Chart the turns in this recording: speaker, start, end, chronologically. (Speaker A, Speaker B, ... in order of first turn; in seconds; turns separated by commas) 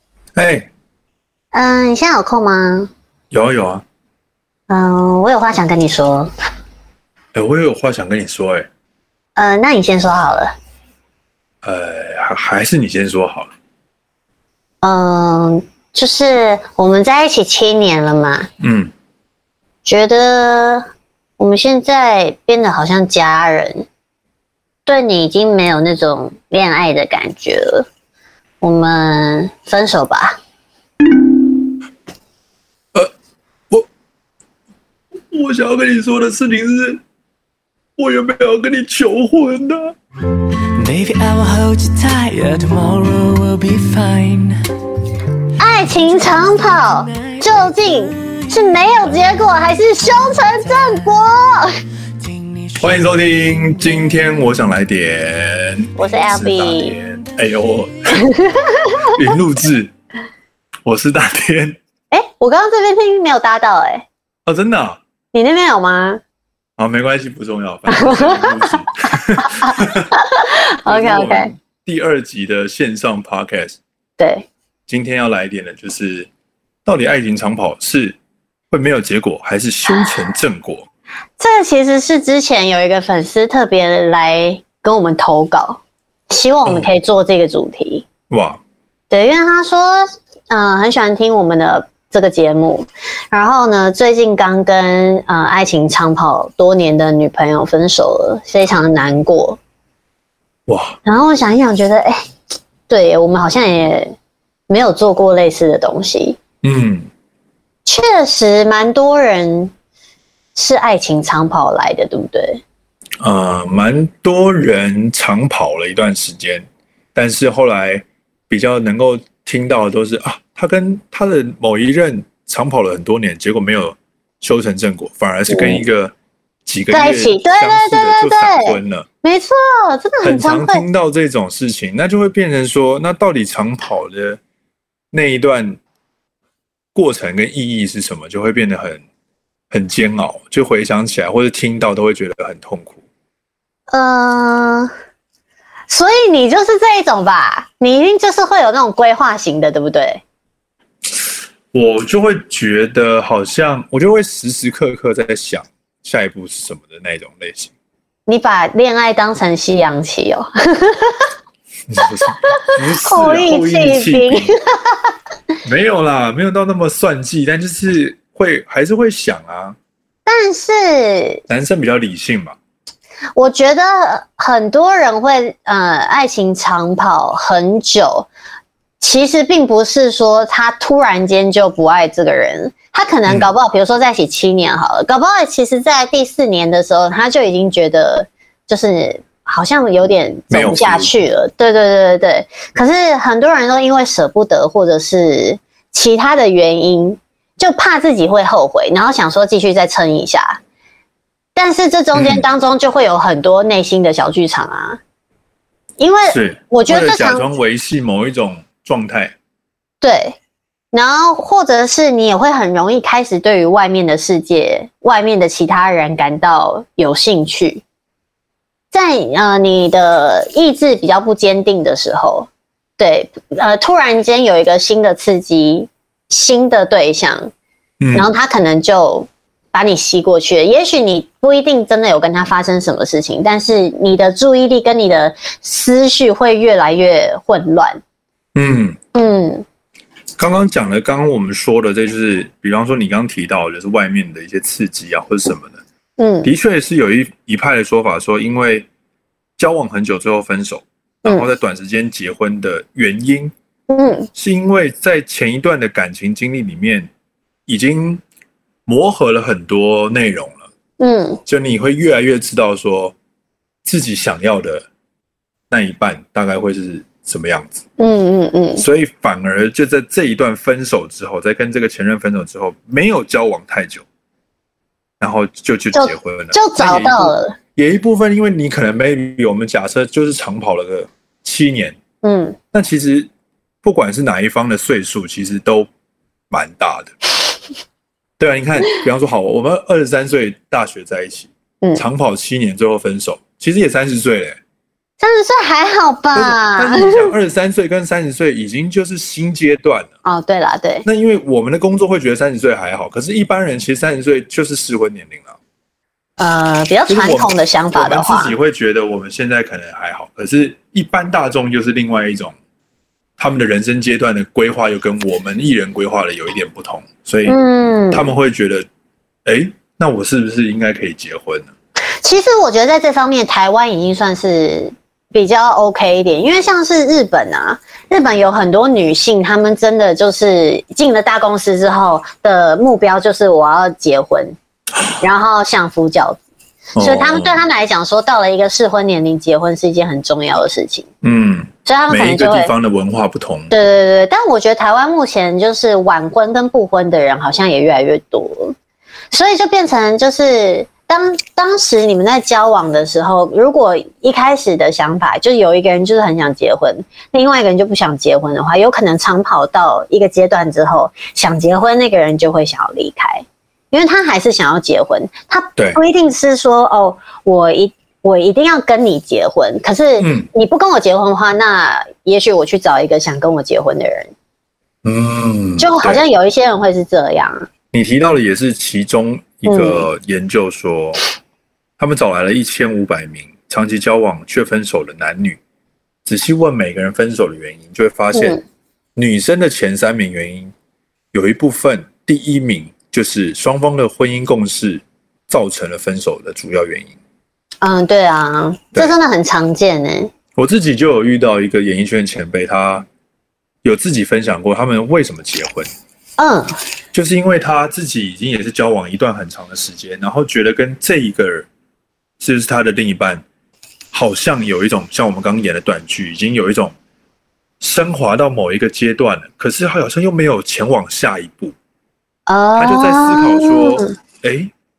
Speaker A: 0.3-0.7, Speaker B: 1.5-2.9, Speaker A: 3.3-3.8, Speaker B: 4.7-6.3, Speaker A: 7.3-8.7, Speaker B: 9.3-10.5, Speaker A: 11.6-13.5, Speaker B: 14.8-18.5, Speaker A: 18.6-18.9, Speaker B: 19.8-20.9, Speaker B: 21.4-23.9, Speaker B: 24.9-27.9, Speaker B: 28.6-30.4, Speaker A: 35.3-37.0, Speaker A: 38.0-40.0, Speaker C: 40.7-44.6, Speaker B: 45.6-51.7, Speaker C: 46.8-47.7, Speaker C: 50.3-51.0, Speaker C: 52.2-53.1, Speaker A: 52.8-58.3, Speaker C: 53.8-54.2, Speaker B: 56.0-57.0, Speaker B: 58.1-59.1, Speaker A: 59.0-59.9, Speaker A: 60.8-61.8, Speaker B: 62.1-64.0, Speaker A: 64.5-65.0, Speaker B: 65.3-66.2, Speaker A: 66.8-70.1, Speaker B: 67.9-68.8, Speaker B: 69.4-71.5, Speaker A: 70.8-73.8, Speaker B: 74.2-74.5, Speaker A: 74.9-76.3, Speaker A: 76.8-78.2, Speaker A: 78.7-80.9, Speaker B: 81.4-88.1, Speaker A: 88.3-88.6, Speaker B: 89.1-99.6, Speaker A: 100.7-101.0, Speaker B: 101.0-102.2, Speaker B: 102.9-104.2, Speaker B: 104.7-106.4, Speaker A: 106.6-107.1, Speaker B: 107.8-109.7, Speaker B: 110.5-112.6, Speaker A: 113.2-126.1, Speaker B: 125.5-125.8, Speaker A: 126.7-129.1, Speaker B: 126.9-130.8, Speaker A: 130.2-134.4, Speaker A: 135.1-135.8, Speaker A: 136.9-139.0, Speaker A: 139.7-143.0, Speaker B: 143.9-144.9, Speaker B: 145.9-150.2, Speaker A: 151.1-157.7, Speaker B: 158.3-161.3, Speaker A: 161.9-164.5, Speaker B: 162.0-165.1, Speaker A: 165.6-169.8, Speaker B: 170.2-171.4, Speaker A: 171.5-172.6, Speaker B: 173.3-178.3, Speaker B: 179.0-200.6, Speaker A: 190.5-191.1, Speaker B: 201.5-205.0, Speaker A: 202.1-202.4, Speaker B: 206.0-207.5, Speaker A: 206.3-209.3, Speaker B: 210.0-210.4, Speaker B: 210.9-217.8, Speaker B: 218.9-227.5, Speaker A: 228.0-228.3, Speaker B: 228.1-238.0, Speaker A: 238.5-239.0, Speaker B: 239.1-239.6, Speaker A: 240.4-245.8, Speaker B: 246.2-246.5, Speaker A: 246.4-248.9, Speaker A: 249.6-253.5, Speaker B: 253.9-254.3, Speaker A: 254.3-257.1, Speaker A: 257.7-258.2, Speaker A: 258.9-260.6, Speaker B: 261.0-261.4, Speaker A: 261.4-263.1, Speaker A: 263.8-264.8, Speaker A: 265.7-267.8, Speaker B: 268.0-268.8, Speaker A: 268.8-274.0, Speaker A: 275.2-282.0, Speaker B: 275.9-277.6, Speaker B: 282.2-282.6, Speaker A: 282.7-283.3, Speaker A: 283.8-285.9, Speaker A: 286.5-287.1, Speaker A: 288.4-294.6, Speaker B: 295.2-297.3, Speaker A: 296.3-300.1, Speaker B: 300.2-301.1, Speaker A: 301.0-305.6, Speaker B: 306.4-308.5, Speaker A: 307.1-312.5, Speaker A: 313.4-317.6, Speaker B: 317.4-318.3, Speaker A: 318.1-318.9, Speaker A: 319.4-321.7, Speaker B: 322.2-334.6, Speaker B: 335.2-336.4, Speaker A: 336.9-337.6, Speaker B: 337.0-341.1, Speaker A: 341.2-343.7, Speaker B: 341.8-342.7, Speaker B: 343.7-348.8, Speaker B: 349.3-374.3, Speaker A: 370.2-370.5, Speaker A: 375.0-376.2, Speaker B: 375.8-377.7, Speaker A: 377.9-381.2, Speaker B: 379.6-380.1, Speaker A: 382.0-385.6, Speaker A: 386.2-388.6, Speaker B: 388.3-388.6, Speaker A: 389.1-390.7, Speaker A: 391.3-397.1, Speaker B: 397.8-400.3, Speaker A: 400.6-403.1, Speaker A: 403.8-405.9, Speaker B: 406.4-406.8, Speaker A: 407.1-411.7, Speaker A: 412.4-413.4, Speaker A: 414.1-416.9, Speaker A: 417.8-421.7, Speaker B: 422.5-424.1, Speaker A: 422.8-424.7